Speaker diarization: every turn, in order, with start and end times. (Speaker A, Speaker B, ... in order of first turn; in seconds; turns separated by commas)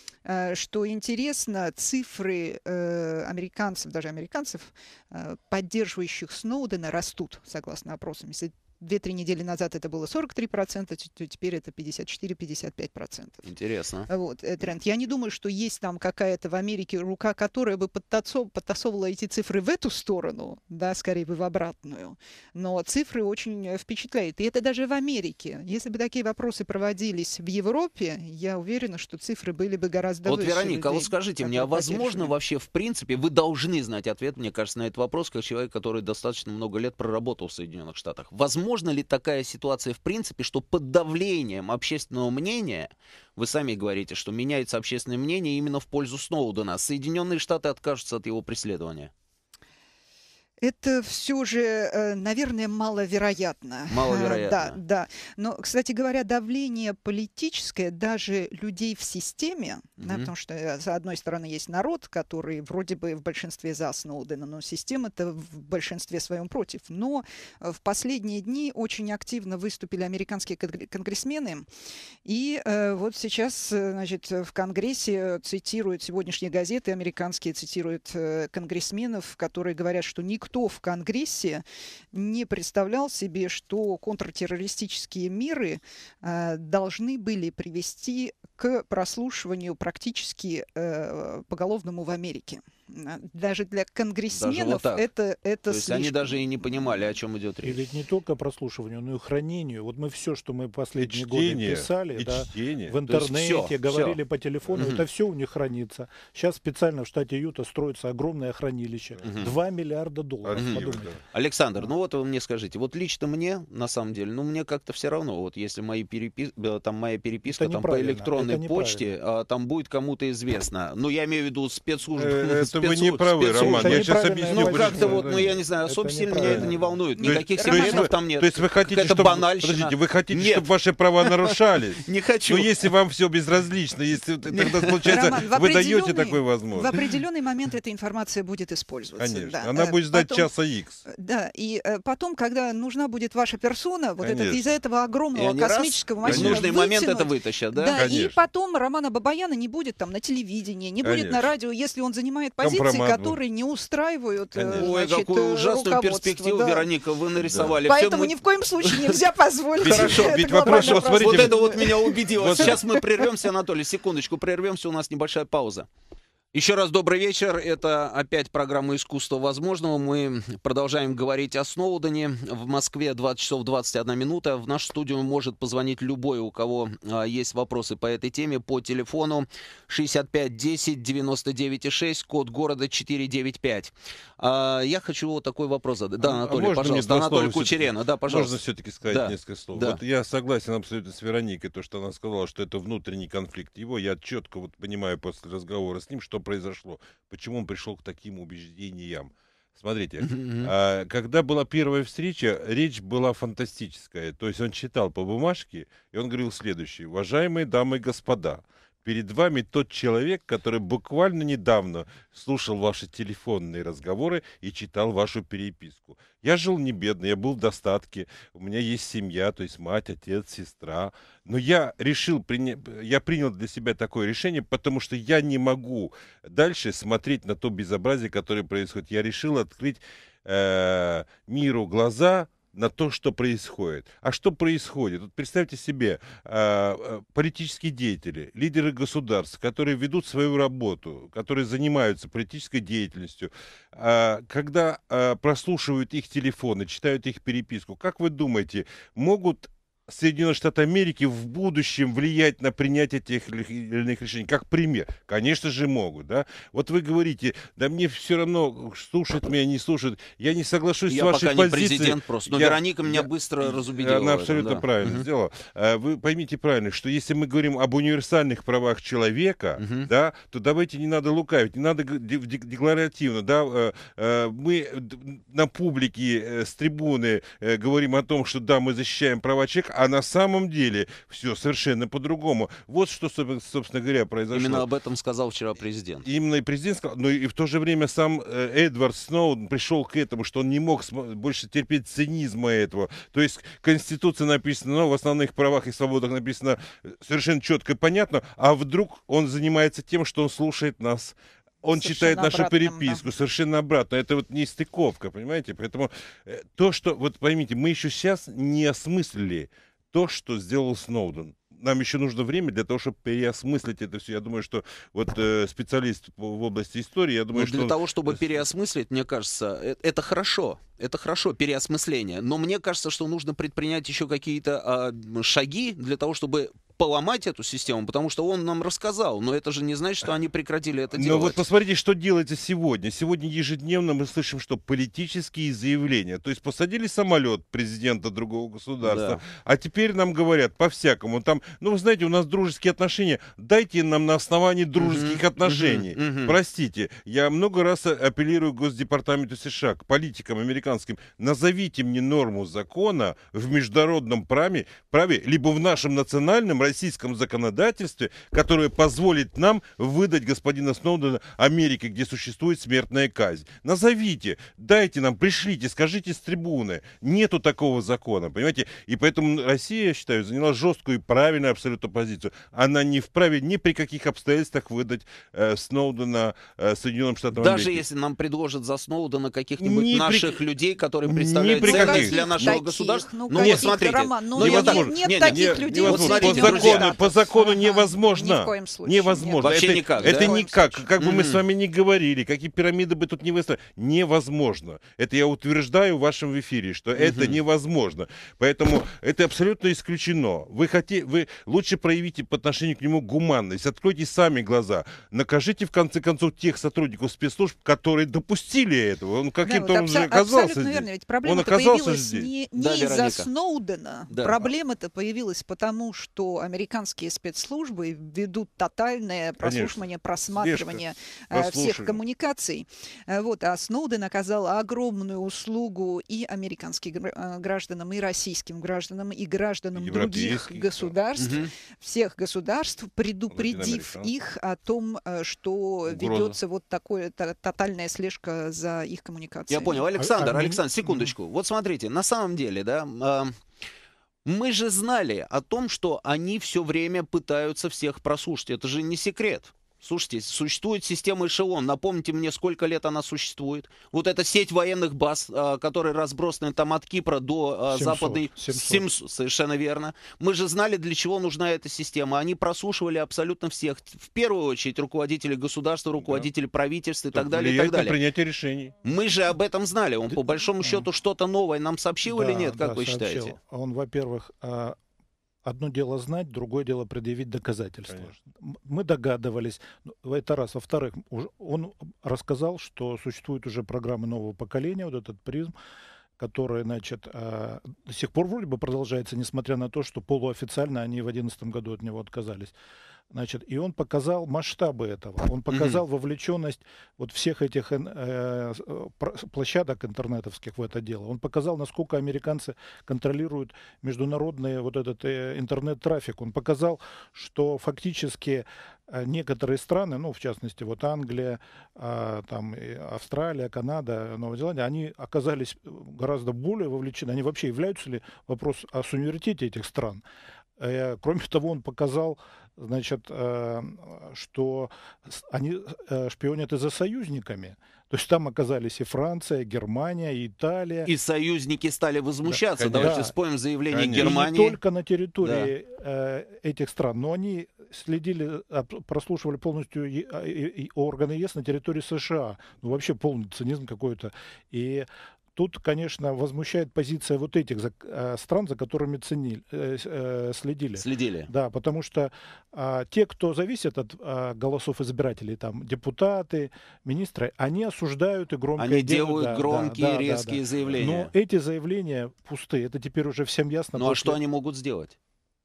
Speaker A: 0.2-13.5, Speaker B: 13.4-14.1, Speaker A: 14.1-32.3, Speaker B: 30.2-49.1, Speaker A: 50.6-71.7, Speaker B: 53.9-54.8, Speaker B: 60.0-60.3, Speaker A: 72.2-96.9, Speaker B: 94.3-95.0, Speaker B: 95.7-97.8, Speaker C: 97.6-111.2, Speaker D: 101.0-103.0, Speaker B: 103.1-104.2, Speaker B: 104.8-105.0, Speaker D: 109.2-109.5, Speaker B: 109.2-109.5, Speaker D: 110.4-111.2, Speaker B: 110.5-130.7, Speaker C: 117.5-119.1, Speaker D: 122.1-125.6, Speaker C: 123.5-127.0, Speaker D: 126.4-137.0, Speaker A: 127.2-128.1, Speaker B: 131.2-132.9, Speaker B: 134.5-135.1, Speaker A: 135.1-140.5, Speaker D: 139.2-141.0, Speaker A: 141.1-156.9, Speaker D: 144.2-144.7, Speaker B: 145.3-148.0, Speaker D: 146.2-146.8, Speaker D: 147.9-148.4, Speaker D: 151.0-151.5, Speaker D: 152.6-153.4, Speaker D: 154.5-154.9, Speaker B: 154.7-159.2, Speaker D: 157.4-157.8, Speaker A: 157.8-163.3, Speaker D: 159.8-162.8, Speaker B: 159.8-165.9, Speaker B: 166.5-188.6, Speaker D: 186.2-284.9, Speaker B: 189.1-190.0, Speaker B: 200.2-200.7, Speaker B: 261.1-265.3, Speaker B: 269.8-270.1, Speaker B: 284.5-286.2, Speaker D: 286.2-318.5, Speaker A: 301.9-303.2, Speaker B: 317.5-331.6, Speaker D: 331.1-378.0, Speaker B: 339.0-339.4, Speaker B: 345.0-346.6, Speaker B: 377.5-387.1, Speaker D: 379.8-380.6, Speaker D: 381.3-382.8, Speaker A: 381.8-391.1, Speaker D: 383.6-383.9, Speaker D: 384.5-412.5, Speaker B: 389.6-390.5, Speaker B: 391.2-391.6, Speaker B: 397.2-397.6, Speaker A: 409.6-440.0, Speaker B: 412.8-413.5, Speaker B: 414.3-414.6, Speaker D: 419.6-422.2, Speaker D: 429.9-431.1, Speaker B: 431.4-431.7, Speaker D: 433.5-434.3, Speaker D: 436.1-436.6, Speaker B: 439.7-443.6, Speaker C: 440.2-441.3, Speaker B: 444.4-468.2, Speaker C: 457.9-459.1, Speaker D: 466.2-466.5, Speaker D: 467.3-468.9, Speaker B: 469.0-473.6, Speaker C: 470.8-471.1, Speaker C: 472.2-475.0, Speaker C: 475.6-485.7, Speaker C: 486.4-492.7, Speaker C: 493.3-520.2, Speaker B: 495.7-496.0, Speaker C: 520.8-531.1, Speaker B: 531.0-534.8, Speaker C: 532.5-533.3, Speaker D: 532.8-533.3, Speaker D: 533.9-534.3, Speaker C: 534.1-564.4, Speaker B: 535.4-535.7, Speaker B: 551.0-551.5, Speaker B: 558.8-561.3, Speaker B: 563.9-565.1